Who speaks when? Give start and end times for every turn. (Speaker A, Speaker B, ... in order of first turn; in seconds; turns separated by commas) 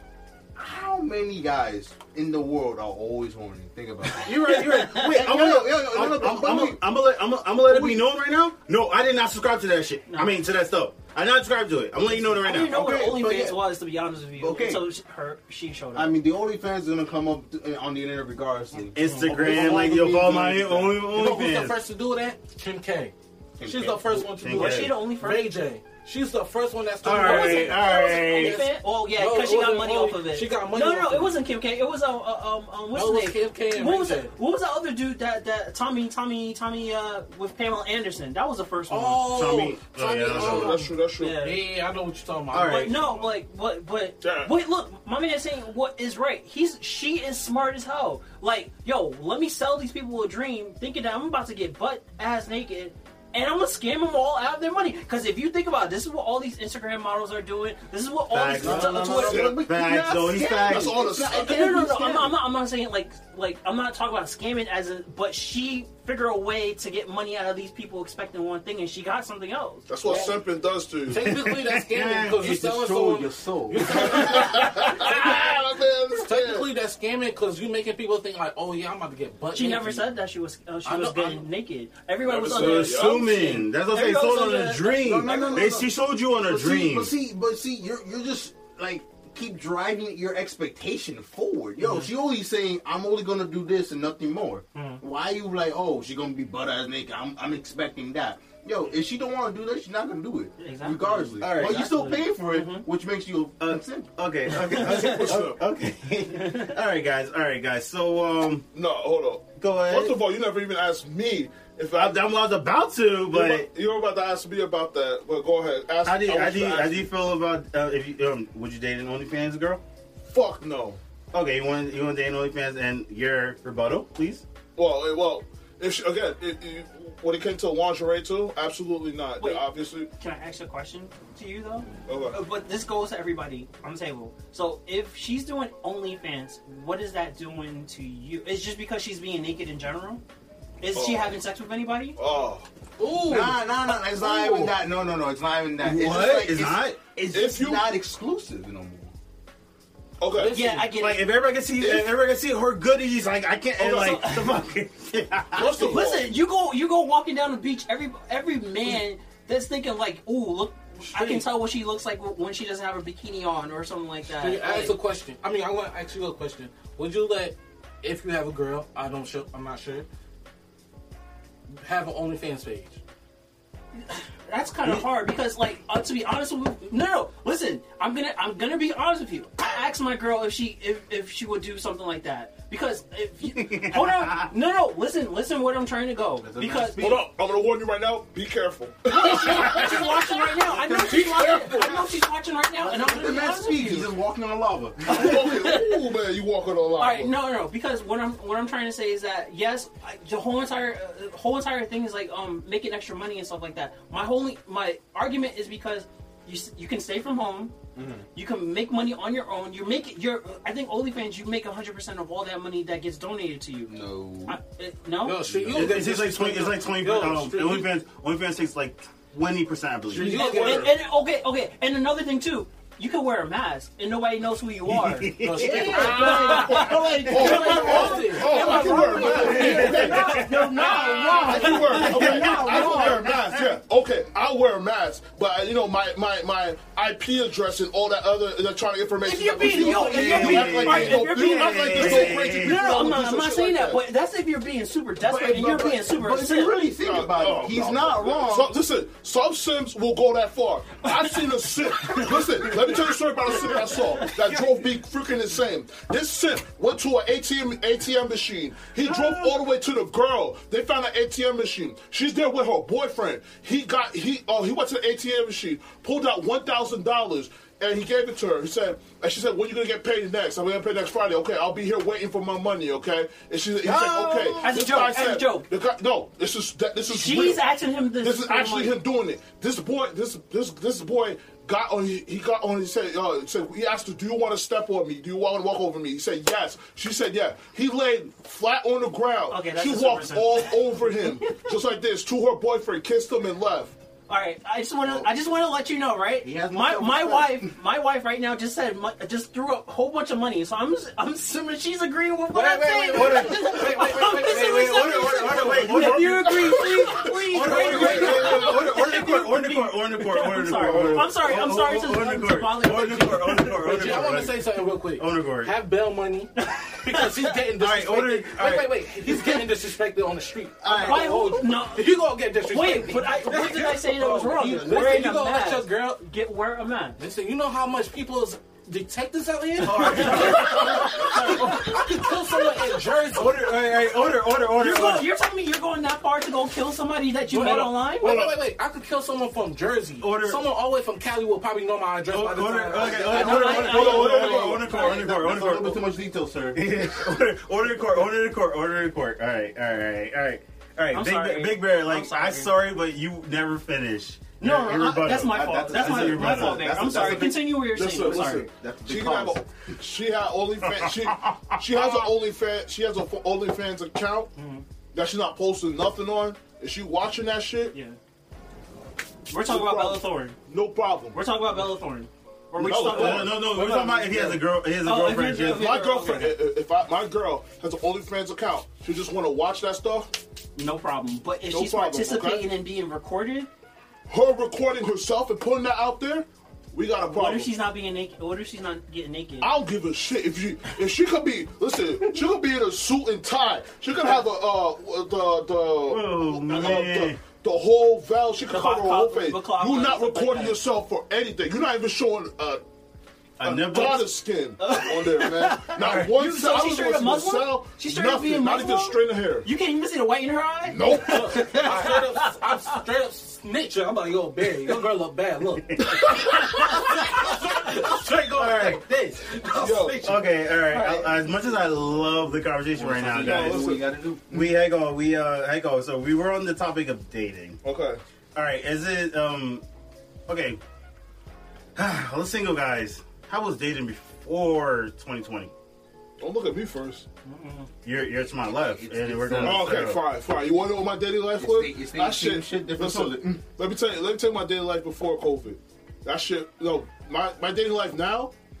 Speaker A: 0.6-6.8, Speaker B: 4.2-13.2, Speaker C: 4.3-5.1, Speaker A: 7.6-8.1, Speaker C: 10.1-10.3, Speaker C: 12.3-16.1, Speaker A: 12.8-13.6, Speaker A: 14.4-14.8, Speaker A: 15.9-20.9, Speaker B: 18.9-21.8, Speaker C: 19.0-19.3, Speaker D: 19.3-31.4, Speaker A: 23.6-24.2, Speaker B: 24.0-25.0, Speaker C: 24.5-25.5, Speaker B: 27.0-28.6, Speaker C: 27.1-39.3, Speaker D: 32.9-34.3, Speaker D: 38.9-43.3, Speaker B: 39.2-40.8, Speaker C: 40.0-41.6, Speaker E: 40.2-41.4, Speaker B: 42.5-42.9, Speaker C: 42.5-59.5, Speaker E: 44.2-44.5, Speaker B: 58.3-61.0, Speaker A: 58.5-62.3, Speaker E: 59.1-59.7, Speaker E: 60.3-62.3, Speaker C: 61.2-69.9, Speaker E: 69.9-71.2, Speaker D: 70.0-70.3, Speaker D: 71.1-75.5, Speaker B: 71.2-72.5, Speaker A: 72.3-74.5, Speaker E: 73.9-76.7, Speaker D: 76.2-80.1, Speaker C: 79.5-85.7, Speaker D: 80.8-81.5, Speaker E: 82.2-83.4, Speaker B: 82.5-87.1, Speaker A: 85.0-104.1, Speaker C: 91.8-92.1, Speaker C: 94.7-95.0, Speaker C: 100.6-102.8, Speaker B: 101.4-102.2, Speaker B: 103.6-108.7, Speaker E: 104.7-105.6, Speaker C: 104.7-105.3, Speaker C: 106.3-106.8, Speaker E: 108.7-112.2, Speaker B: 109.6-110.2, Speaker B: 111.9-113.7, Speaker E: 113.3-117.1, Speaker B: 116.0-119.8, Speaker E: 120.3-121.0, Speaker B: 121.3-124.4, Speaker E: 124.8-130.1, Speaker C: 129.4-140.2, Speaker E: 132.1-132.4, Speaker C: 140.8-142.2, Speaker E: 140.9-141.4, Speaker E: 142.2-142.7, Speaker D: 143.0-143.7, Speaker A: 143.2-149.1, Speaker B: 145.8-147.1, Speaker E: 147.3-147.9, Speaker E: 150.2-150.6, Speaker D: 150.3-151.0, Speaker C: 150.5-151.3, Speaker B: 150.9-155.9, Speaker E: 151.8-152.1, Speaker E: 153.8-154.2, Speaker C: 153.8-154.7, Speaker E: 155.5-156.3, Speaker C: 155.8-164.9, Speaker D: 161.1-161.5, Speaker D: 164.3-170.1, Speaker D: 171.7-173.0, Speaker C: 173.9-187.2, Speaker B: 183.5-184.5, Speaker A: 186.4-187.2, Speaker E: 187.0-190.2, Speaker C: 189.1-194.1, Speaker A: 189.7-190.0, Speaker A: 190.6-192.2, Speaker A: 192.8-195.4, Speaker C: 195.1-196.0, Speaker E: 195.1-197.3, Speaker C: 197.0-207.7, Speaker A: 207.9-208.3, Speaker C: 208.3-215.4, Speaker A: 213.9-214.6, Speaker D: 215.2-217.9, Speaker A: 215.4-216.1, Speaker B: 215.7-220.9, Speaker D: 220.1-220.9, Speaker C: 220.2-233.3, Speaker B: 224.9-228.0, Speaker D: 225.4-230.4, Speaker E: 225.9-244.0, Speaker B: 229.2-233.8, Speaker A: 231.7-232.2, Speaker C: 239.2-246.8, Speaker D: 239.4-240.8, Speaker B: 240.1-243.1, Speaker A: 245.2-248.8, Speaker E: 246.9-277.6, Speaker C: 252.0-252.6, Speaker C: 273.8-275.7, Speaker C: 277.1-278.9, Speaker E: 278.2-293.9, Speaker C: 289.5-291.6, Speaker C: 294.3-314.1, Speaker A: 296.4-297.7, Speaker D: 302.5-306.0, Speaker B: 303.0-314.6, Speaker E: 305.8-308.8, Speaker D: 307.5-308.8, Speaker E: 310.8-311.3, Speaker D: 313.6-326.2, Speaker B: 315.1-315.7, Speaker C: 316.6-317.2, Speaker B: 317.8-319.6, Speaker A: 320.8-321.3, Speaker B: 320.9-321.1, Speaker C: 320.9-322.1, Speaker C: 322.6-327.2, Speaker D: 327.2-333.9, Speaker C: 329.8-331.9, Speaker B: 329.9-332.2, Speaker B: 333.3-335.3, Speaker C: 334.7-338.3, Speaker D: 337.5-343.9, Speaker E: 338.2-338.5, Speaker B: 340.2-340.6, Speaker B: 342.3-346.0, Speaker C: 343.1-345.3, Speaker E: 343.3-345.2, Speaker A: 343.9-346.9, Speaker B: 346.7-357.1, Speaker C: 351.1-352.7, Speaker C: 354.6-358.7, Speaker A: 355.5-359.9, Speaker E: 357.0-364.5, Speaker B: 360.8-362.2, Speaker C: 361.9-362.2, Speaker C: 364.5-364.8, Speaker E: 365.1-367.9, Speaker C: 367.9-368.2, Speaker C: 369.5-370.6, Speaker E: 369.5-371.4, Speaker C: 371.3-376.6, Speaker E: 372.8-373.6, Speaker B: 372.8-375.8, Speaker E: 375.7-380.4, Speaker C: 380.8-383.7, Speaker E: 381.7-382.7, Speaker E: 384.3-387.7, Speaker C: 387.2-389.7, Speaker E: 389.6-402.8, Speaker B: 396.1-397.4, Speaker C: 396.7-397.1, Speaker C: 398.7-400.8, Speaker B: 403.6-404.3, Speaker E: 403.6-409.7, Speaker C: 404.8-413.0, Speaker E: 410.8-411.9, Speaker D: 411.2-420.5, Speaker B: 415.9-427.8, Speaker E: 419.7-420.3, Speaker C: 420.9-421.2, Speaker A: 422.9-424.7, Speaker E: 423.3-424.1, Speaker E: 427.8-428.2, Speaker B: 428.5-429.8, Speaker B: 430.5-430.8, Speaker B: 431.9-435.7, Speaker E: 436.4-437.2, Speaker C: 437.4-437.9, Speaker B: 438.0-440.3, Speaker A: 438.6-440.1, Speaker E: 439.6-448.5, Speaker A: 441.6-443.6